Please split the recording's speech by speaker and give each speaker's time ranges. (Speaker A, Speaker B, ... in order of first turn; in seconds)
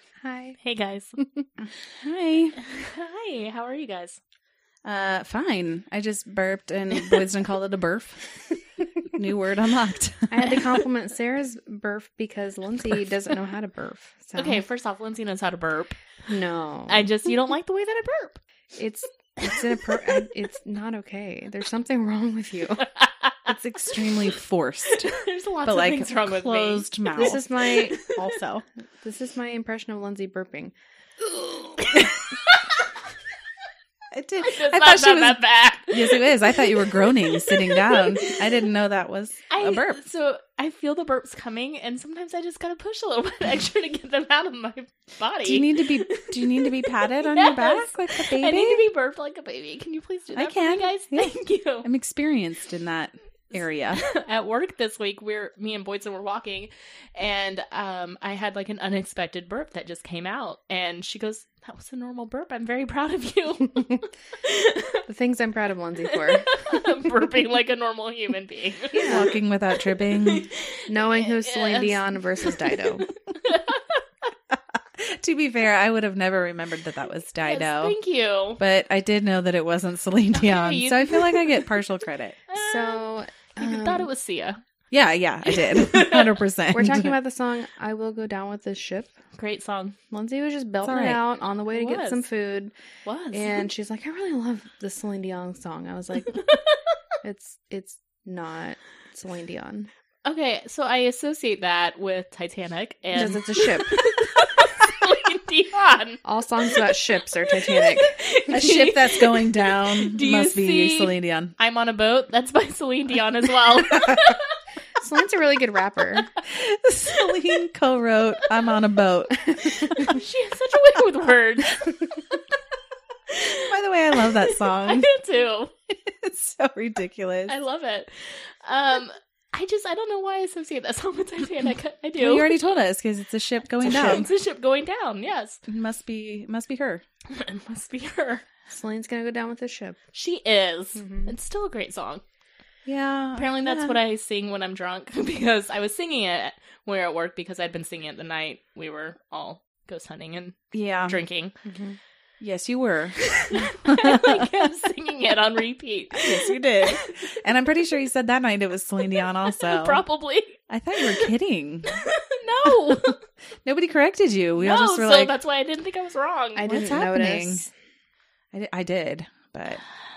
Speaker A: 0.2-0.6, 1.2-1.4, 10.3-14.6, 16.2-17.1, 18.8-22.9, 27.1-28.0, 29.0-30.7, 65.0-66.7, 68.9-69.2, 70.9-73.1, 82.5-84.1, 86.7-89.1, 90.1-92.7, 93.3-96.5, 97.2-99.9, 103.1-104.0, 106.2-108.2, 115.0-116.3, 138.7-140.0, 140.9-141.3, 151.6-152.0, 166.5-167.7
Speaker B: 0.6-1.1, 2.6-4.2, 14.3-16.0, 16.9-18.4, 24.9-28.4, 31.8-32.6, 34.4-38.4, 39.5-51.9, 53.9-65.0, 66.1-69.4, 70.0-72.8, 73.3-74.0, 77.4-78.6, 80.3-81.7, 82.5-84.6, 85.5-86.3, 89.3-90.0, 91.7-92.2, 93.0-93.6, 100.2-106.8, 107.6-114.5, 119.9-122.3, 123.3-125.7, 127.5-132.6, 133.8-135.6, 137.3-138.4, 140.1-142.2, 143.3-151.5, 153.2-157.3, 159.2-161.3, 161.9-163.2, 164.6-166.8
Speaker C: 1.9-2.6, 4.8-8.3, 9.1-10.8, 23.4-28.6, 34.1-40.0, 45.4-48.9, 50.3-54.0, 69.1-70.5, 75.0-78.0, 78.6-82.4, 84.9-87.1, 90.8-91.2, 108.5-111.5, 116.4-120.2, 123.6-125.1, 125.9-127.5, 132.2-134.3, 135.7-137.0, 142.8-143.9, 150.7-151.2, 152.4-154.7, 156.1-160.0, 160.7-162.1, 162.6-165.3, 166.7-167.6, 168.5-169.8